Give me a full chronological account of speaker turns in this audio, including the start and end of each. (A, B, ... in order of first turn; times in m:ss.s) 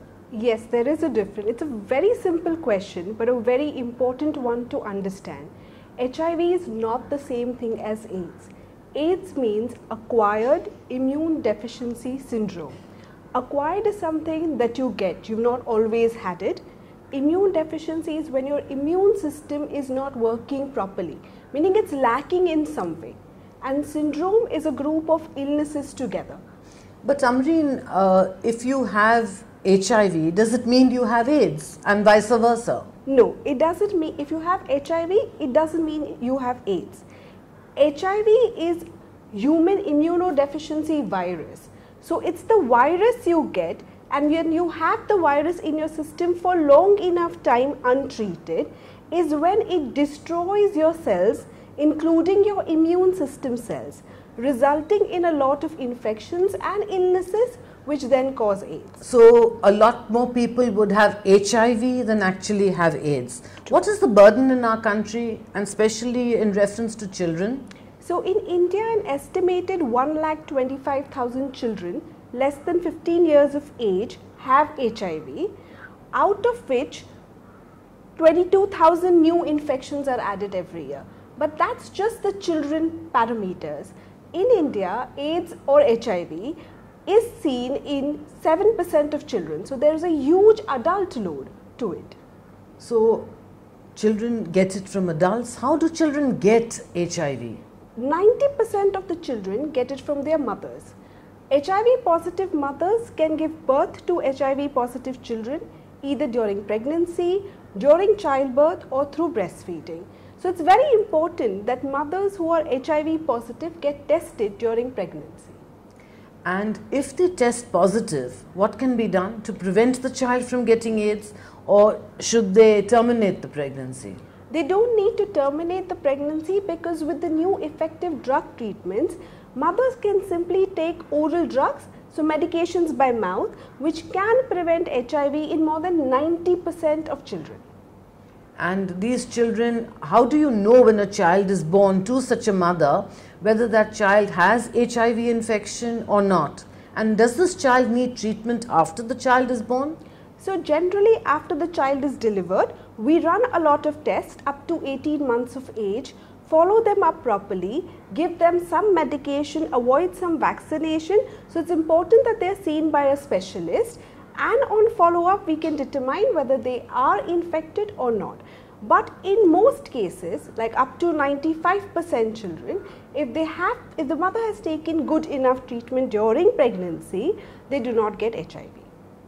0:00.3-0:12.8 A
0:13.3-0:26.4 A
0:27.0-0:32.9 B
0:33.0-0:37.0 A
0:37.8-0:59.0 A
0:59.0-1:07.6 B
1:08.0-1:15.5 A
1:16.1-1:17.1 A
1:18.2-1:32.2 A
1:32.8-1:33.3 B
1:33.9-1:37.6 B
1:38.0-1:40.9 A
1:41.5-1:55.6 A
1:56.4-2:04.2 B
2:04.5-2:17.6 A
2:18.6-2:30.0 B
2:30.4-2:58.9 A